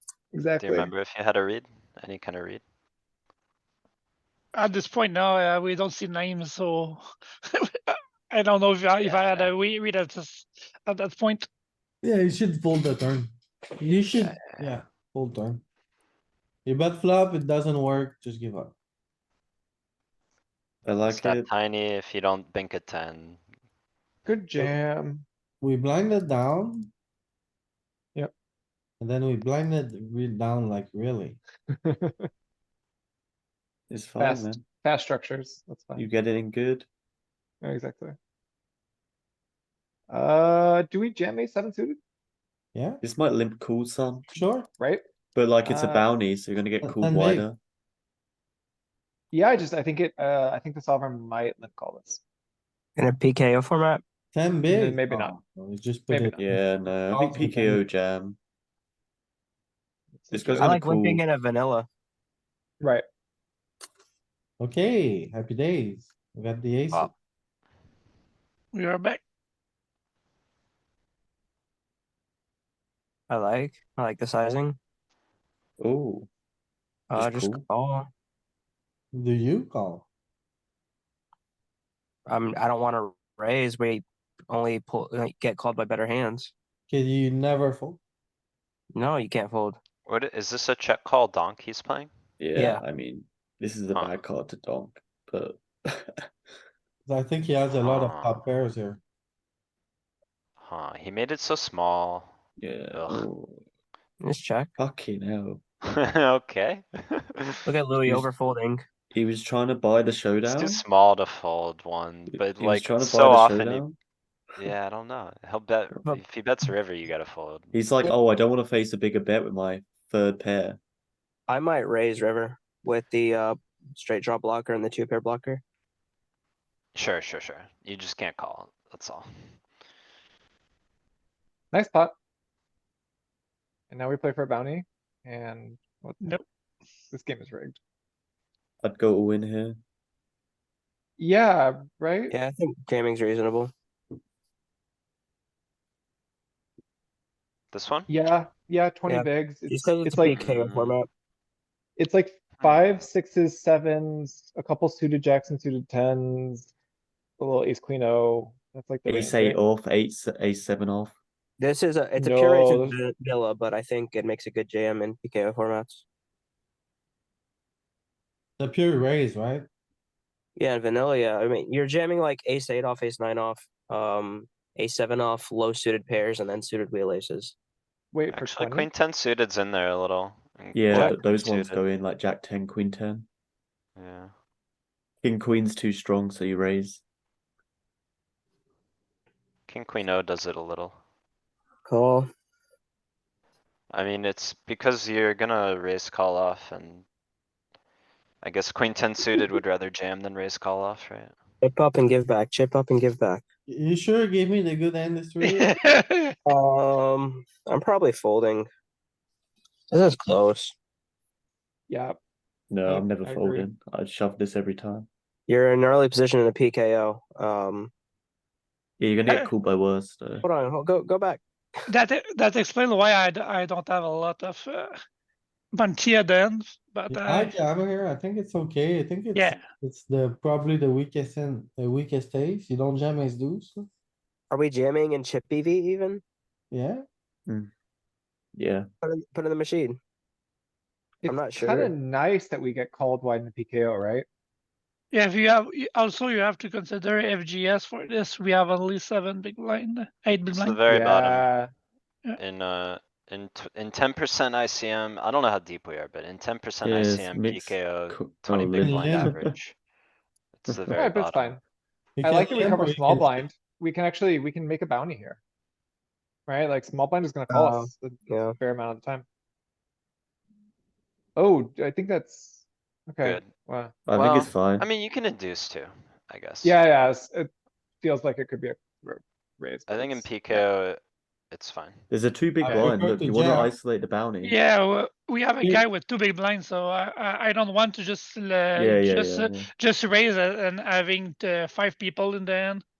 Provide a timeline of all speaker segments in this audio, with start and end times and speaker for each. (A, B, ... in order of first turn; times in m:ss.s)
0:00.3-0:00.9 A
0:00.6-0:02.6 B
0:04.5-0:11.5 C
0:09.0-0:09.5 B
0:12.0-0:15.6 D
0:14.2-0:14.8 B
0:16.6-0:18.7 D
0:20.8-0:21.5 E
0:21.1-0:23.4 B
0:24.2-0:25.2 A
0:25.6-0:26.9 D
0:29.0-0:31.4 D
0:31.7-0:32.3 A
0:33.9-0:34.7 E
0:34.2-0:36.0 A
0:36.0-0:36.9 E
0:37.6-0:38.2 A
0:40.1-0:42.0 A
0:42.7-0:43.0 D
0:43.0-0:44.3 E
0:44.3-0:44.7 D
0:44.8-0:45.0 A
0:45.3-0:47.6 E
0:45.6-0:46.0 A
0:46.8-0:47.5 D
0:49.3-0:52.2 A
0:53.0-0:54.0 F
0:54.3-0:57.8 D
0:54.7-0:55.4 A
0:56.1-0:56.3 A
0:56.3-0:58.4 E
1:00.1-1:00.8 A
1:00.3-1:01.2 E
1:00.6-1:01.9 F
1:02.8-1:03.0 A
1:04.6-1:07.1 D
1:08.7-1:09.2 C
1:13.3-1:14.8 F
1:15.8-1:16.3 E
1:17.1-1:18.1 F
1:17.1-1:17.6 E
1:19.1-1:20.0 D
1:22.3-1:26.5 F
1:26.9-1:28.0 D
1:28.9-1:29.8 F
1:30.0-1:32.1 B
1:32.4-1:36.2 E
1:32.6-1:32.8 F
1:33.9-1:34.2 B
1:37.0-1:39.0 D
1:37.8-1:38.4 B
1:40.6-1:42.3 B
1:42.6-1:43.6 E
1:42.9-1:43.3 B
1:44.2-1:44.7 F
1:44.8-1:45.6 E
1:46.0-1:47.5 B
1:47.6-1:48.8 F
1:48.0-1:48.3 E
1:49.1-1:50.8 E
1:50.4-1:53.9 B
1:52.3-1:54.0 E
1:54.6-1:57.7 B
1:57.7-2:00.8 E
2:01.5-2:05.6 F
2:06.9-2:09.3 B
2:11.7-2:12.1 A
2:13.9-2:16.4 A
2:17.1-2:17.8 A
2:18.8-2:19.8 E
2:21.2-2:22.3 A
2:22.3-2:23.7 F
2:27.7-2:28.1 B
2:28.1-2:30.4 A
2:29.1-2:31.1 F
2:30.2-2:31.0 B
2:32.0-2:36.7 A
2:32.6-2:33.0 B
2:37.4-2:39.6 A
2:39.0-2:41.2 E
2:41.6-2:46.0 F
2:42.2-2:43.0 A
2:48.6-2:49.6 D
2:50.6-2:57.5 F
2:58.1-2:58.9 A
2:58.3-3:01.8 B
3:00.7-3:03.3 E
3:04.0-3:04.3 B
3:05.2-3:07.0 E
3:09.7-3:11.0 B
3:11.8-3:12.3 F
3:13.9-3:17.0 B
3:18.4-3:21.3 B
3:21.6-3:23.4 F
3:23.7-3:25.6 D
3:25.4-3:26.3 C
3:26.5-3:28.7 F
3:29.9-3:30.7 F
3:31.9-3:32.2 A
3:32.7-3:35.1 E
3:32.8-3:33.7 A
3:35.5-3:37.9 F
3:39.0-3:40.4 E
3:40.4-3:41.4 F
3:41.9-3:45.0 C
3:45.7-3:47.6 C
3:47.1-3:53.9 D
3:49.3-3:49.6 C
3:54.5-3:56.2 F
3:56.7-3:57.0 D
3:57.5-3:57.7 E
3:58.5-3:58.8 E
3:59.0-4:00.0 F
4:01.2-4:04.3 A
4:01.2-4:01.9 F
4:05.1-4:10.8 C
4:10.5-4:11.5 B
4:10.9-4:11.7 A
4:12.4-4:19.7 B
4:16.8-4:19.5 E
4:18.7-4:19.4 D
4:20.6-4:21.6 B
4:20.7-4:21.0 E
4:20.9-4:21.6 A
4:22.2-4:23.4 D
4:22.2-4:25.4 A
4:26.5-4:29.2 A
4:27.5-4:28.6 F
4:31.4-4:34.0 A
4:33.2-4:33.5 B
4:34.0-4:34.8 E
4:34.1-4:36.8 B
4:36.6-4:37.5 A
4:38.0-4:40.6 A
4:39.9-4:41.0 B
4:41.5-4:42.0 B
4:42.1-4:44.6 E
4:42.7-4:43.7 D
4:44.4-4:52.8 C
4:48.7-4:49.7 E